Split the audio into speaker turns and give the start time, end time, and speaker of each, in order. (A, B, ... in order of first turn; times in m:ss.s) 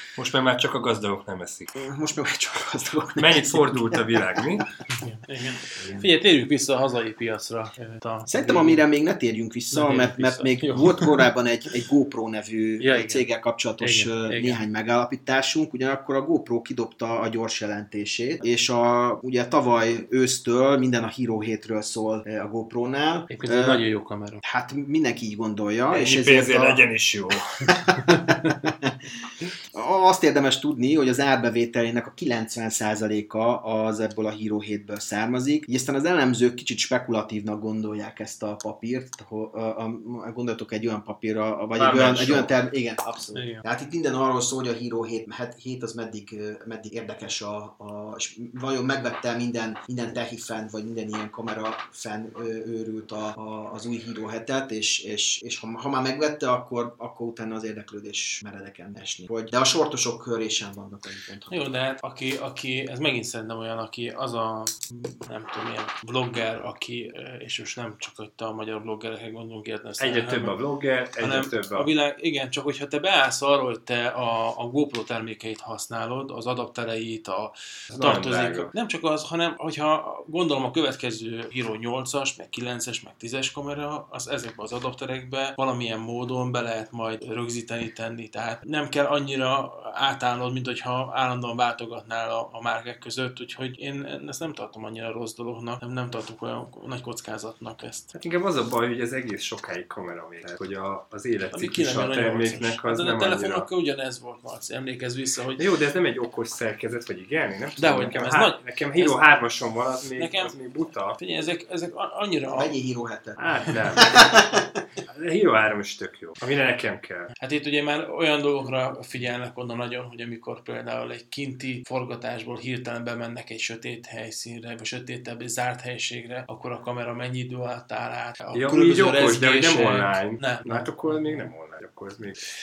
0:00.2-0:01.7 A
0:01.8-0:04.6 B
0:03.1-0:04.7 A
0:05.0-0:08.8 C
0:05.6-0:06.1 B
0:08.3-0:23.8 B
0:09.7-0:11.2 C
0:12.8-0:13.2 C
0:13.8-0:14.6 C
0:23.3-0:24.4 C
0:24.4-0:26.8 B
0:25.9-0:27.8 A
0:27.7-0:29.0 B
0:28.1-0:28.5 C
0:29.7-1:01.7 B
0:41.8-0:42.5 A
0:43.3-0:43.6 C
1:01.5-1:10.6 C
1:10.0-1:11.9 A
1:11.2-1:38.1 C
1:17.9-1:18.7 A
1:38.1-1:43.7 A
1:41.5-1:45.6 C
1:45.6-1:51.2 A
1:47.8-1:49.2 C
1:50.2-1:50.6 C
1:51.2-1:52.7 C
1:52.5-1:53.4 B
1:53.4-1:54.2 A
1:53.9-1:54.7 B
1:55.1-1:57.3 A
1:57.4-2:11.5 C
2:08.5-2:12.4 A